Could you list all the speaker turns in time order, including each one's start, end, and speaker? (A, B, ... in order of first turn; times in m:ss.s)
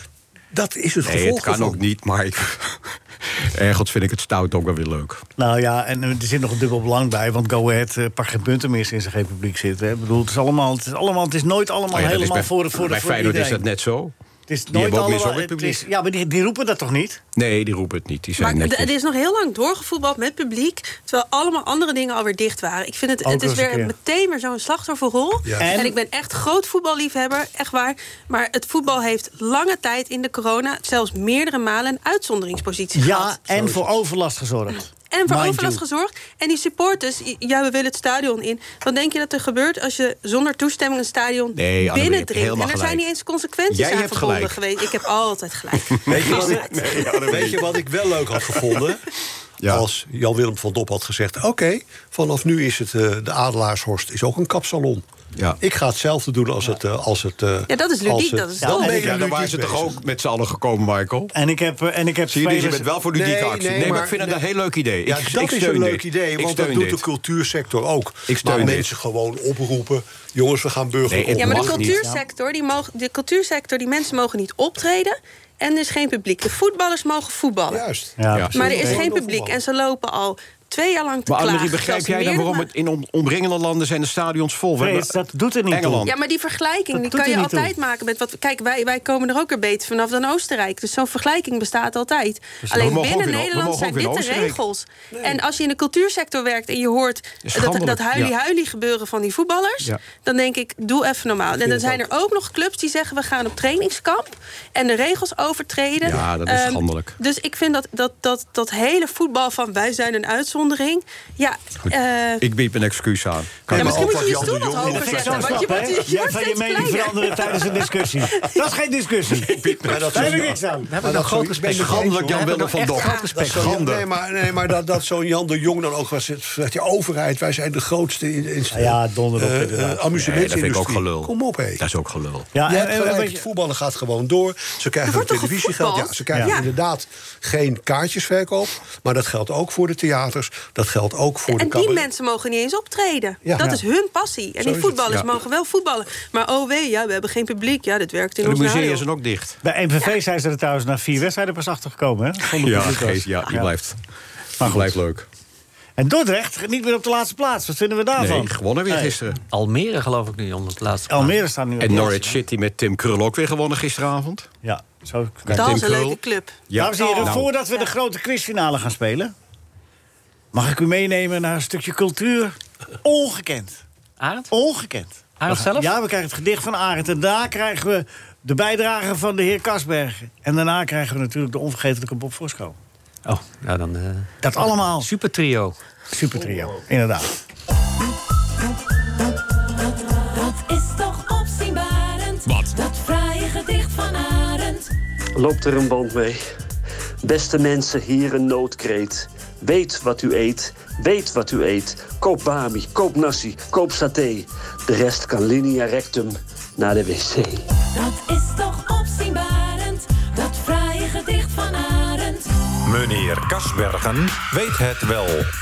0:00.5-0:01.8 A
0:01.0-0:05.2 B
0:05.4-0:13.6 C
0:11.9-0:14.1 B
0:14.5-0:17.2 C
0:14.7-0:15.8 B
0:17.4-0:18.9 B
0:18.4-0:33.4 D
0:23.2-0:23.9 C
0:25.4-0:25.8 A
0:25.6-0:26.0 C
0:33.0-0:35.8 C
0:33.5-0:34.0 A
0:35.1-0:47.2 D
0:41.6-0:43.0 B
0:43.7-0:44.6 B
0:45.9-0:47.8 B
0:46.1-0:49.0 A
0:46.2-0:46.5 C
0:49.7-0:55.0 A
0:55.6-1:00.0 A
0:57.7-0:59.1 D
0:58.6-0:59.3 C
0:58.8-1:01.3 B
1:01.3-1:02.9 C
1:02.3-1:07.0 B
1:03.1-1:04.4 A
1:05.0-1:12.0 A
1:08.3-1:08.9 B
1:11.1-1:12.0 B
1:11.4-1:17.8 D
1:17.7-1:19.6 A
1:18.2-1:19.0 C
1:18.3-1:18.8 B
1:18.5-1:22.7 D
1:21.3-1:25.2 B
1:24.8-1:26.1 C
1:25.7-1:26.1 B
1:26.0-1:52.4 D
1:26.9-1:27.7 C
1:32.6-1:32.9 C
1:32.7-1:34.6 B
1:35.1-1:35.4 A
1:37.4-1:38.3 B
1:41.6-1:42.1 A
1:46.0-1:47.2 B
1:51.9-1:54.6 B
1:53.7-1:56.1 A
1:53.7-1:58.5 D
1:54.8-2:00.9 C
1:59.4-2:00.5 B
1:59.8-2:11.8 A
2:00.9-2:02.4 E
2:01.1-2:04.1 B
2:02.6-2:03.3 D
2:08.7-2:10.1 C
2:10.2-2:12.5 B
2:12.5-2:13.4 C
2:12.6-2:22.1 A
2:15.0-2:16.7 D
2:21.5-2:29.1 D
2:23.4-2:23.8 A
2:24.6-2:25.1 A
2:28.4-2:29.6 B
2:29.6-2:33.7 C
2:32.5-2:34.0 B
2:34.6-2:35.0 C
2:34.6-2:35.3 B
2:36.0-2:39.2 C
2:38.2-2:39.4 B
2:39.5-2:41.4 E
2:41.1-2:42.2 C
2:41.8-2:44.5 B
2:44.6-2:45.7 C
2:45.5-2:47.5 B
2:45.5-2:47.4 D
2:46.8-2:49.3 C
2:50.5-2:53.8 C
2:54.2-2:54.5 E
2:54.5-3:02.8 C
2:55.4-2:55.9 E
3:03.2-3:05.8 E
3:04.4-3:05.1 C
3:06.1-3:07.3 C
3:10.3-3:14.9 F
3:15.4-3:16.4 G
3:17.2-3:27.6 G
3:27.9-3:32.5 F
3:32.8-3:35.5 H